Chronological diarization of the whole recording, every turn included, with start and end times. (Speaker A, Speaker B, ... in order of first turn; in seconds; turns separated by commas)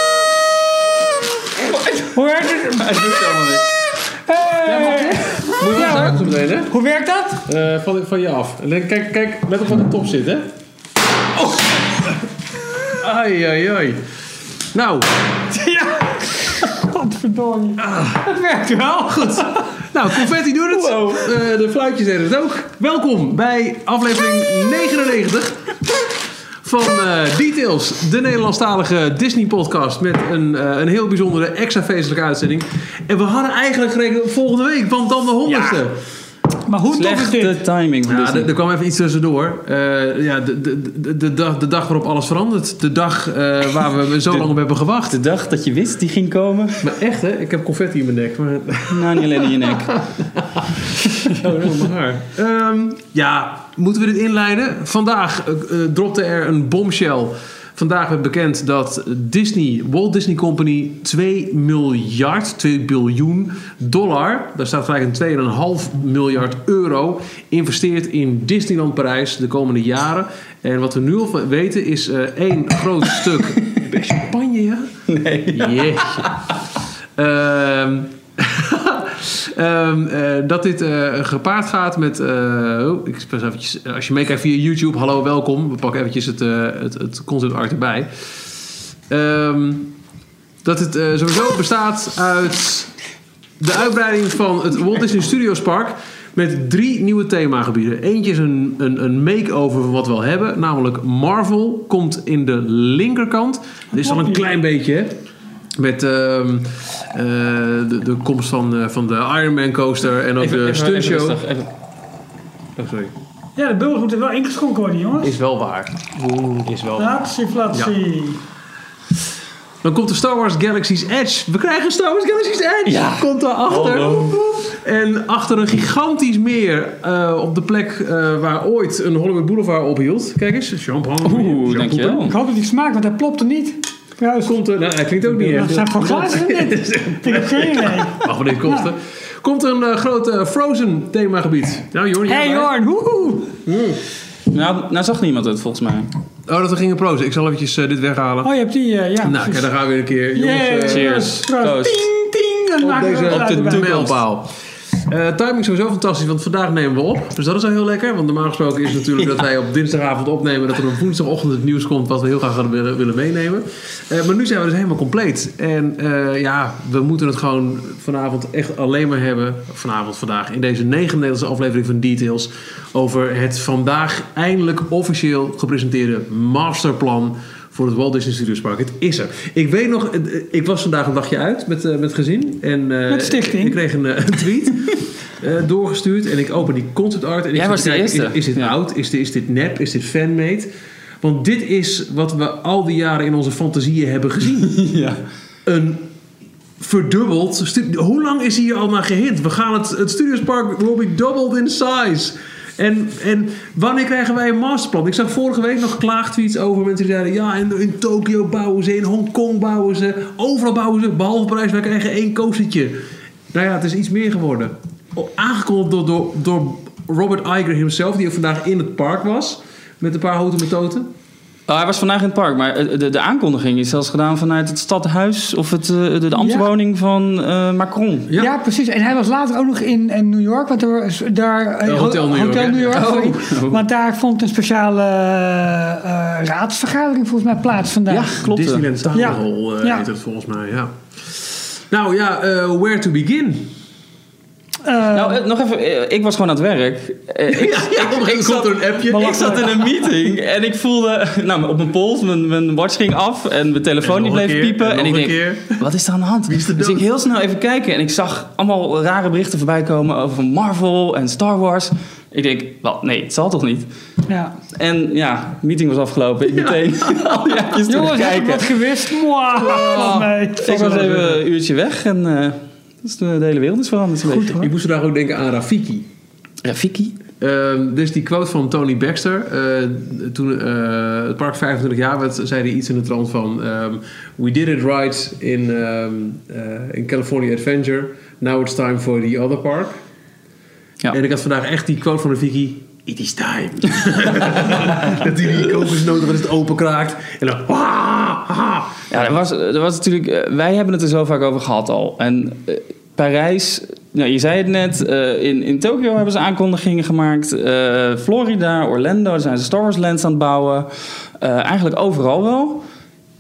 Speaker A: 1.6-3.7, Speaker B: 2.1-3.0, Speaker B: 4.3-7.5, Speaker C: 4.6-6.7, Speaker A: 5.6-6.2, Speaker C: 7.5-10.5, Speaker C: 13.0-14.0, Speaker C: 14.7-15.2, Speaker B: 15.5-19.7, Speaker C: 17.8-18.2, Speaker C: 19.1-25.8, Speaker A: 20.8-21.1, Speaker C: 26.6-36.0, Speaker B: 35.5-35.8, Speaker B: 36.7-37.6, Speaker A: 36.9-38.5, Speaker C: 38.0-45.2, Speaker A: 45.1-46.9, Speaker C: 46.8-74.9, Speaker A: 48.9-50.0, Speaker A: 75.1-76.4, Speaker C: 75.5-76.4, Speaker C: 77.2-88.1, Speaker C: 89.1-89.9, Speaker C: 90.6-92.9, Speaker C: 93.6-105.1, Speaker C: 105.8-111.4, Speaker A: 110.4-111.7, Speaker C: 112.8-113.1, Speaker B: 113.6-115.4, Speaker C: 115.2-117.2, Speaker B: 117.0-118.4, Speaker C: 119.8-132.3, Speaker A: 122.8-124.4, Speaker A: 131.2-132.3, Speaker B: 132.2-134.6, Speaker C: 134.4-142.7, Speaker B: 135.4-138.3, Speaker B: 142.3-143.6, Speaker C: 143.7-144.0, Speaker A: 144.5-146.1, Speaker C: 146.5-148.5, Speaker B: 148.4-149.7, Speaker C: 149.2-151.3, Speaker B: 150.3-153.9, Speaker A: 150.8-152.0, Speaker C: 152.8-190.7, Speaker A: 153.2-154.2, Speaker B: 183.1-183.8, Speaker A: 187.5-188.8, Speaker C: 191.2-194.9, Speaker A: 194.7-195.2, Speaker C: 195.7-196.1, Speaker C: 196.8-213.0, Speaker C: 213.5-221.1, Speaker A: 221.7-228.3, Speaker B: 226.4-226.7, Speaker C: 228.3-228.5, Speaker B: 228.4-238.4, Speaker C: 231.8-233.2, Speaker A: 232.8-233.8, Speaker A: 238.1-239.1, Speaker C: 238.4-243.7, Speaker B: 239.1-240.1, Speaker B: 244.8-245.4, Speaker A: 245.1-263.9, Speaker C: 247.5-249.8, Speaker B: 249.1-249.9, Speaker C: 254.0-255.8, Speaker C: 256.5-257.0, Speaker B: 264.3-264.6, Speaker A: 264.8-268.8, Speaker C: 266.5-267.7, Speaker B: 267.9-271.2, Speaker C: 269.5-271.4, Speaker A: 269.9-274.6, Speaker B: 274.2-274.7, Speaker C: 274.6-276.1, Speaker A: 276.6-277.2, Speaker C: 277.4-290.0, Speaker C: 291.1-299.3, Speaker A: 299.1-312.8